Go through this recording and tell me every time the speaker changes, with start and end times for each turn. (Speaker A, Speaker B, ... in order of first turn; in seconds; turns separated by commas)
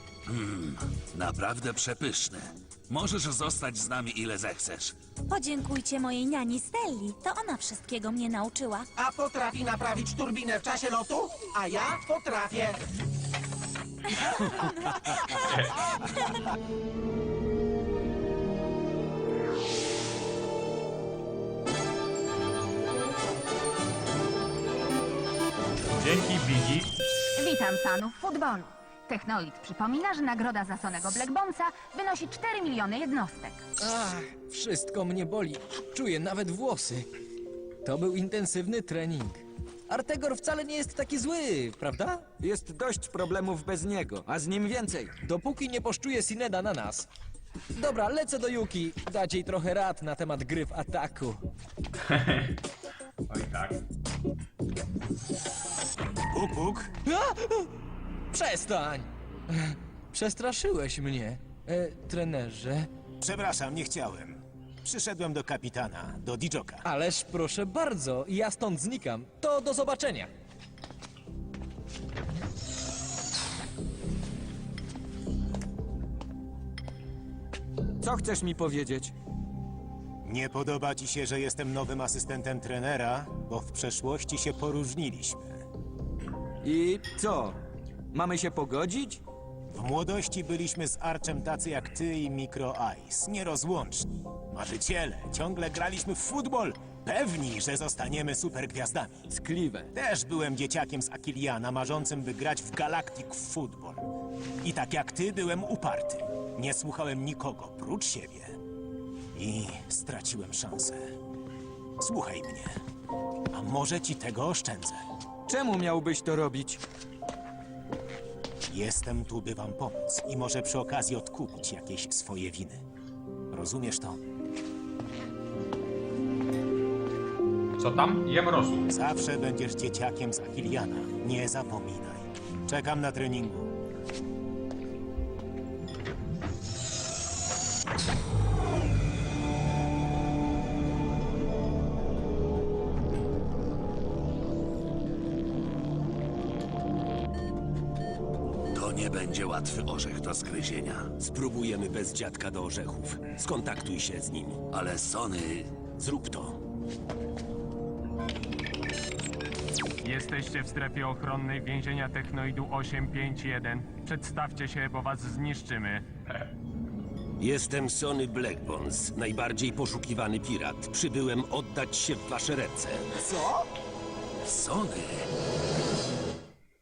Speaker A: 0.3-5.0, Speaker B: 5.3-8.9, Speaker C: 9.0-12.8, Speaker D: 27.4-33.6, Speaker E: 33.8-37.1, Speaker E: 37.9-42.2, Speaker F: 42.4-45.1, Speaker E: 45.2-47.1, Speaker E: 47.8-51.4, Speaker G: 52.1-52.5, Speaker G: 53.3-53.8, Speaker H: 56.3-56.9, Speaker E: 57.1-57.7, Speaker E: 58.3-62.9, Speaker H: 63.2-66.8, Speaker E: 66.8-70.3, Speaker F: 78.0-79.1, Speaker H: 80.2-85.6, Speaker F: 86.6-87.6, Speaker F: 88.1-89.2, Speaker H: 89.7-99.2, Speaker F: 99.3-99.9, Speaker H: 99.9-104.1, Speaker H: 104.6-108.6, Speaker H: 109.3-111.0, Speaker H: 112.0-112.8, Speaker H: 113.5-115.0, Speaker F: 115.5-116.8, Speaker H: 118.7-122.8, Speaker H: 123.5-124.2, Speaker G: 127.8-128.9, Speaker H: 128.9-133.7, Speaker A: 148.7-151.1, Speaker I: 151.2-154.6, Speaker A: 154.7-155.8, Speaker I: 156.0-156.6, Speaker J: 160.1-166.0, Speaker I: 167.4-173.1, Speaker C: 173.2-173.7, Speaker A: 174.4-175.3